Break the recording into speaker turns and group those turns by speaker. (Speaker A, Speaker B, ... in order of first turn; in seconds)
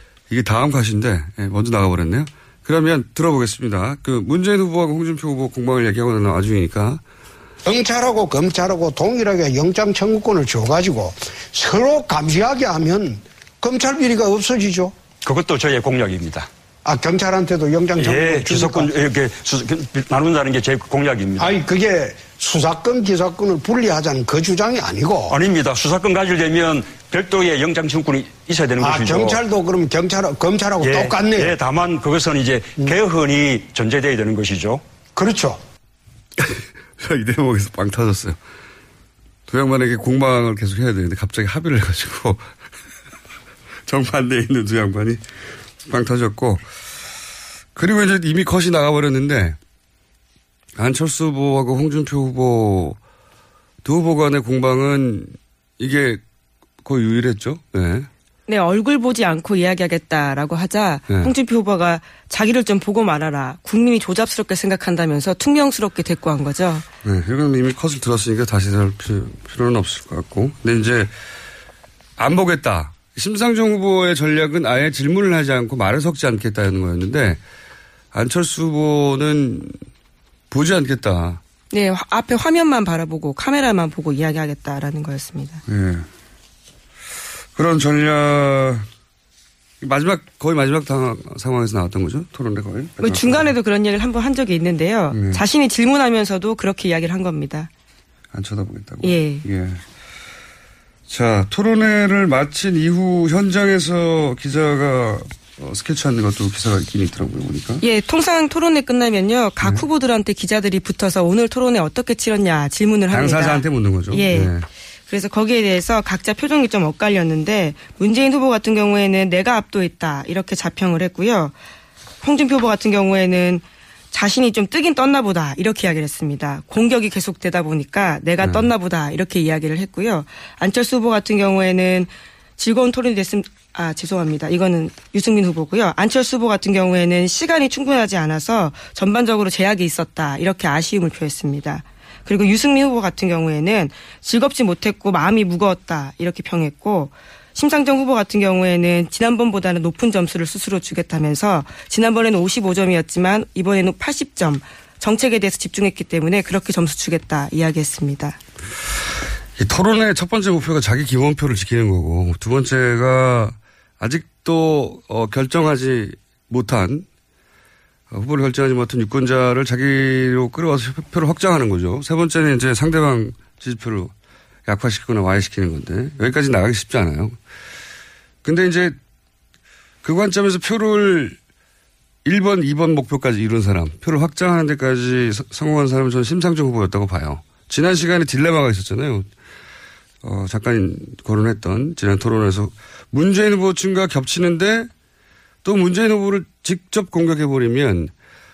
Speaker A: 0.3-7.0, 36.4-38.4, 39.5-42.5, 43.9-45.2, 45.8-46.6, 47.7-49.6, 50.8-53.0, 53.8-56.2, 56.8-58.1, 67.0-71.1, 72.2-77.4, 78.1-79.8, 80.5-81.4, 85.7-86.0, 87.5-88.9, 89.8-93.5, 95.1-95.4, 98.3-99.8, 101.1-107.8, 113.1-114.7, 128.4-128.7, 159.6-167.1, 168.1-174.1, 174.7-177.4, 178.4-179.0, 180.0-181.4, 182.2-189.3, 190.2-194.9, 195.6-198.1
Speaker B: 7.7-14.9, 16.8-18.9, 21.4-25.3, 28.8-31.6, 35.2-35.5
Speaker C: 15.2-16.5, 18.0-21.6, 25.3-29.4, 30.8-35.3
Speaker D: 58.5-66.8, 81.7-85.6, 93.0-97.7, 99.0-99.4, 107.8-114.5, 115.1-121.5, 122.2-158.4